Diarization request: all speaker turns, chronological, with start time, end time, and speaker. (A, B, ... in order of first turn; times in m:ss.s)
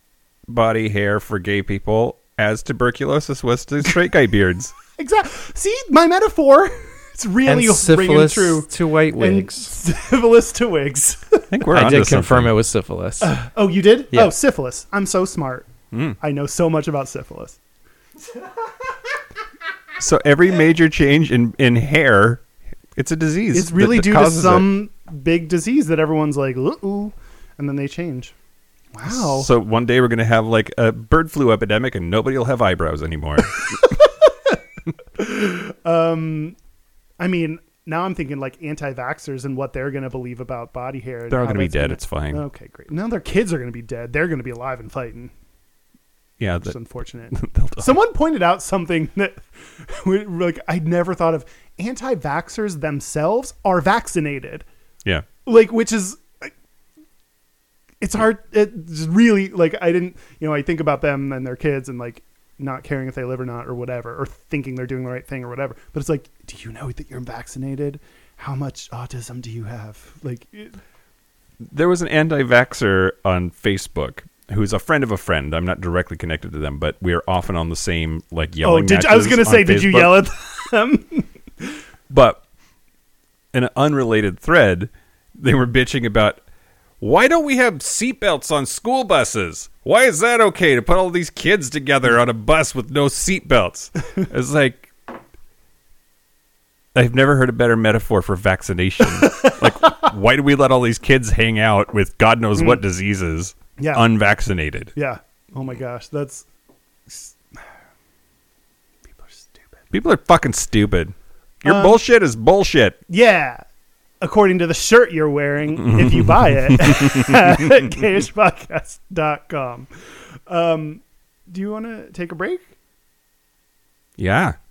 0:00.5-0:04.7 A
0:05.0-0:11.5 B
0:07.4-0:09.7 C
0:11.5-0:12.5 A
0:11.7-0:13.3 C
0:13.2-0:17.6 B
0:20.0-0:22.4 A
0:23.0-0:24.7 A
0:23.5-0:28.3 B
0:28.9-0:29.5 B
0:29.0-0:34.0 A
0:33.8-0:34.6 B
0:35.1-0:36.6 B
0:37.2-0:45.3 B
0:41.3-0:42.4 A
0:46.4-0:46.8 A
0:46.6-0:54.6 B
0:47.3-0:47.9 A
0:55.4-0:56.5 B
0:58.0-1:10.8 B
1:11.7-1:20.2 A
1:18.6-1:21.7 B
1:22.1-1:22.4 A
1:23.5-1:26.4 A
1:27.0-1:34.9 A
1:36.9-1:44.9 A
1:42.6-1:42.8 B
1:43.8-1:44.0 B
1:44.9-1:46.4 B
1:49.1-1:49.6 B
1:49.9-1:53.0 A
1:51.6-1:52.0 B
1:53.1-1:53.6 B
1:54.2-1:59.9 B
1:55.8-1:57.7 A
2:00.5-2:02.7 B
2:04.2-2:04.6 A